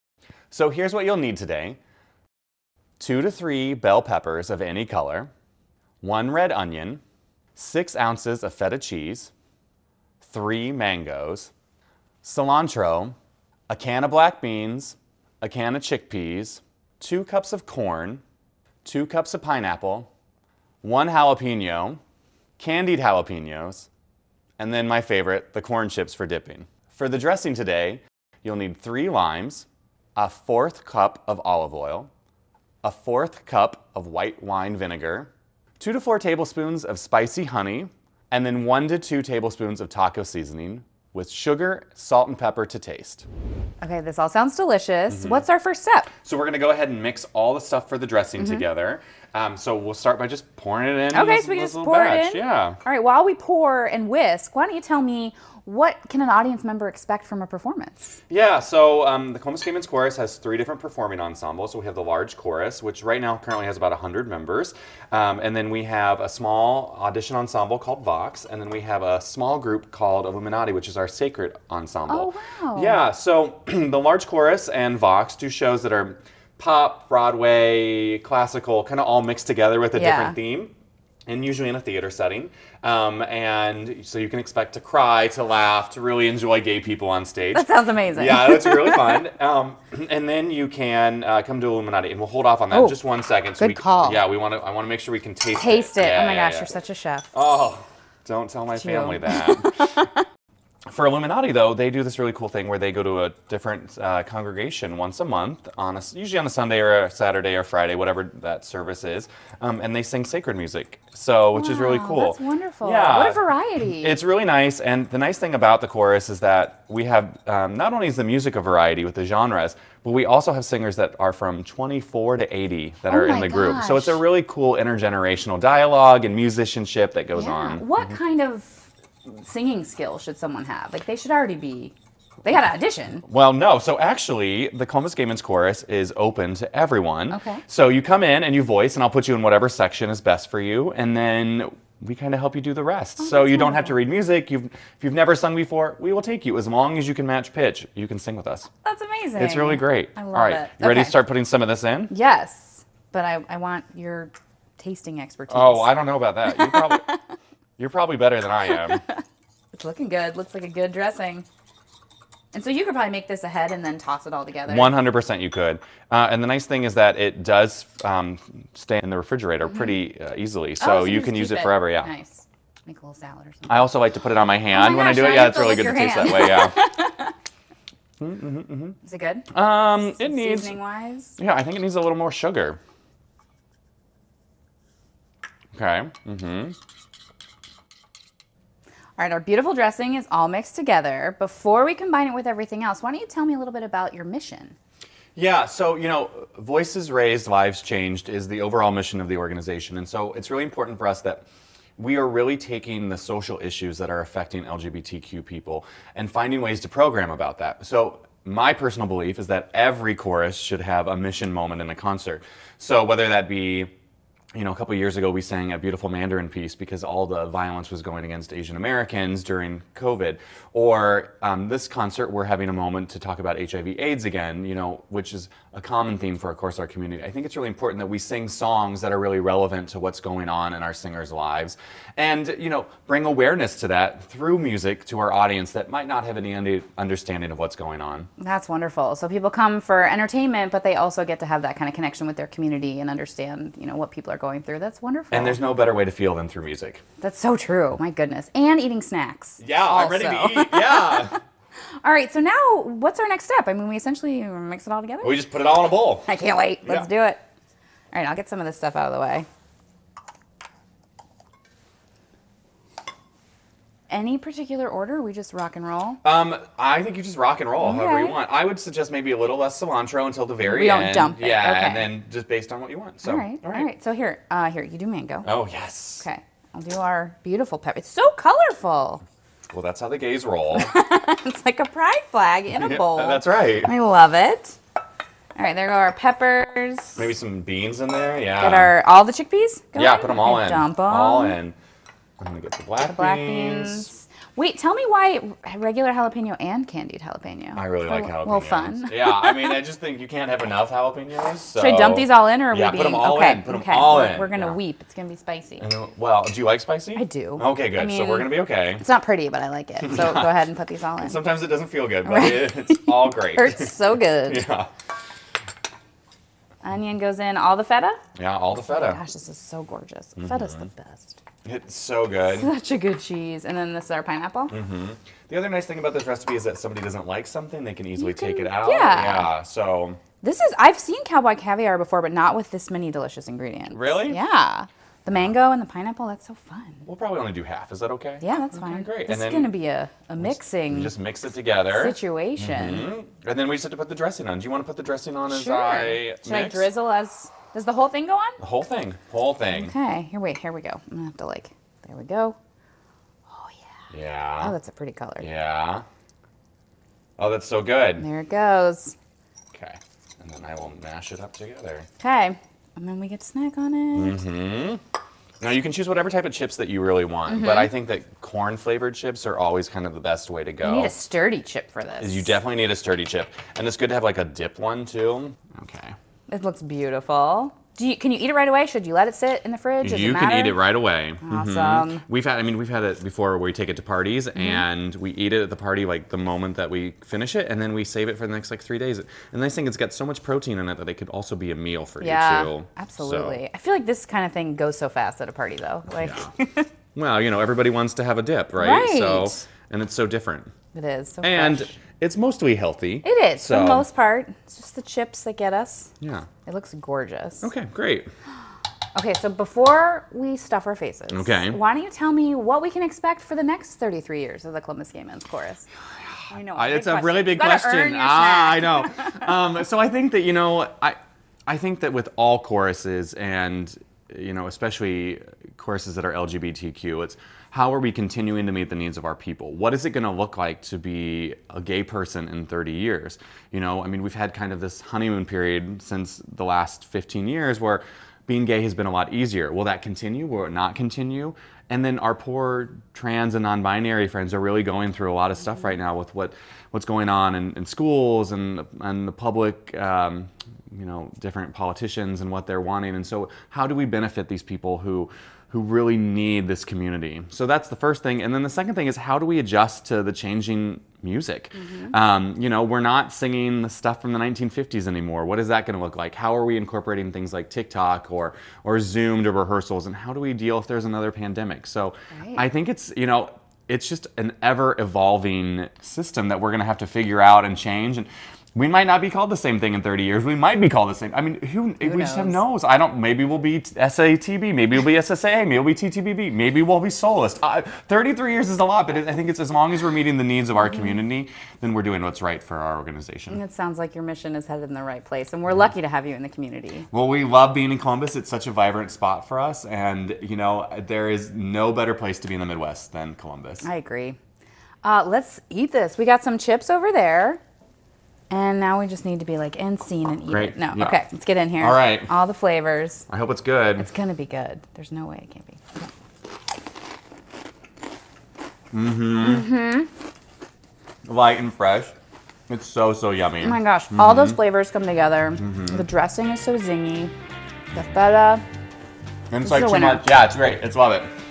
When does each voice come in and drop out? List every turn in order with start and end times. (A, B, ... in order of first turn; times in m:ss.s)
0:00.5-0:01.8 A
0:03.0-0:05.3 A
0:06.0-0:07.0 A
0:07.5-0:09.3 A
0:10.2-0:11.5 A
0:12.2-0:13.1 A
0:13.7-0:18.2 A
0:18.8-0:20.1 A
0:20.8-0:22.0 A
0:22.6-0:23.9 A
0:24.6-0:32.1 A
0:32.8-0:43.3 A
0:43.8-0:46.1 B
0:45.1-0:45.4 A
0:46.2-0:52.8 A
0:48.4-0:48.6 B
0:51.1-0:58.2 B
0:58.3-1:20.7 A
1:12.1-1:13.0 B
1:19.9-1:20.4 B
1:21.3-1:36.7 A
1:27.5-1:29.3 B
1:32.7-1:33.0 B
1:33.6-1:34.2 B
1:35.6-1:37.3 B
1:37.3-1:39.7 A
1:38.7-1:40.2 B
1:40.9-2:07.9 A
1:51.5-1:54.2 B
2:03.1-2:04.2 B
2:07.3-2:13.2 B
2:13.2-2:28.7 A
2:17.3-2:17.6 B
2:23.2-2:23.9 B
2:28.8-2:31.2 B
2:29.4-2:32.1 A
2:32.1-2:37.2 B
2:35.5-2:37.0 A
2:37.8-2:39.0 A
2:38.7-2:39.2 B
2:39.7-2:41.4 B
2:42.5-2:45.0 B
2:44.7-2:52.1 A
2:49.6-2:49.9 B
2:50.8-2:53.9 B
2:53.7-2:56.8 A
2:54.7-2:57.3 B
2:58.2-2:59.0 A
2:59.0-3:01.4 B
2:59.5-3:00.8 A
3:01.4-3:02.8 A
3:05.7-3:06.8 A
3:09.2-3:14.8 B
3:15.4-3:21.4 A
3:22.0-3:33.9 A
3:34.5-3:58.3 A
3:58.4-4:05.6 B
4:05.3-4:07.0 A
4:07.2-4:11.4 B
4:09.6-4:11.4 A
4:12.0-4:15.5 B
4:15.2-4:16.3 A
4:16.2-4:17.4 B
4:18.1-4:19.5 B
4:24.1-4:26.2 B
4:26.2-4:33.9 A
4:27.8-4:28.4 B
4:30.6-4:32.1 B
4:33.2-4:35.5 B
4:35.4-4:36.2 A
4:36.2-4:39.2 B
4:39.7-4:40.9 A
4:40.7-4:44.8 B
4:42.7-4:43.9 A
4:45.6-4:47.3 B
4:47.2-4:48.9 A
4:48.6-4:51.6 B
4:49.9-4:51.7 A
4:52.4-4:54.1 A
4:53.1-4:59.8 B
4:57.7-5:04.8 A
5:01.7-5:05.8 B
5:05.8-5:09.0 A
5:07.1-5:11.4 B
5:10.0-5:10.5 A
5:11.2-5:14.9 A
5:12.2-5:14.6 B
5:16.8-5:18.2 B
5:18.4-5:19.2 A
5:18.9-5:21.4 B
5:20.4-5:20.8 A
5:21.6-5:22.7 A
5:22.5-5:24.8 B
5:24.7-5:30.2 A
5:28.2-5:29.5 B
5:30.4-5:37.0 B
5:33.9-5:34.4 A
5:37.0-5:39.7 A
5:38.4-5:41.1 B
5:40.4-5:46.9 A
5:41.9-5:43.1 B
5:45.5-5:48.6 B
5:48.6-5:49.9 A
5:49.7-5:52.6 B
5:53.5-5:53.9 B
5:54.1-5:54.7 A
5:54.6-5:55.4 B
5:55.4-5:56.0 A
5:57.4-5:58.2 A
5:58.2-5:59.1 B
5:59.7-6:02.1 A
6:02.2-6:04.4 B
6:04.1-6:05.0 A
6:05.6-6:11.1 A
6:07.5-6:07.9 B
6:10.8-6:12.5 B
6:12.2-6:16.1 A
6:16.5-6:20.8 B
6:20.0-6:33.6 A
6:21.4-6:22.2 B
6:24.5-6:24.8 B
6:32.2-6:36.9 B
6:36.1-6:36.5 A
6:37.1-6:40.7 A
6:38.7-6:39.6 B
6:40.9-6:42.0 B
6:41.4-6:44.0 A
6:43.2-6:46.1 B
6:46.2-6:46.5 A
6:46.6-6:47.7 B
6:47.6-6:48.3 A
6:49.1-6:55.9 B
6:51.3-6:51.8 A
6:56.4-8:13.6 A
6:56.5-6:59.5 B
7:41.7-7:42.1 B
7:52.3-7:52.6 B
8:02.0-8:02.6 B
8:13.5-8:17.1 B
8:17.1-8:23.9 A
8:23.8-8:24.4 B
8:25.0-8:27.6 B
8:28.5-8:33.3 B
8:30.5-8:31.2 A
8:31.8-8:32.3 A
8:33.3-8:34.1 A
8:34.0-8:36.1 B
8:38.9-8:39.7 A
8:39.4-8:40.1 B
8:41.2-8:42.1 A
8:42.7-8:44.6 A
8:43.6-8:47.3 B
8:45.6-8:46.0 A
8:47.9-8:48.6 B
8:49.5-8:51.3 A
8:49.6-8:50.3 B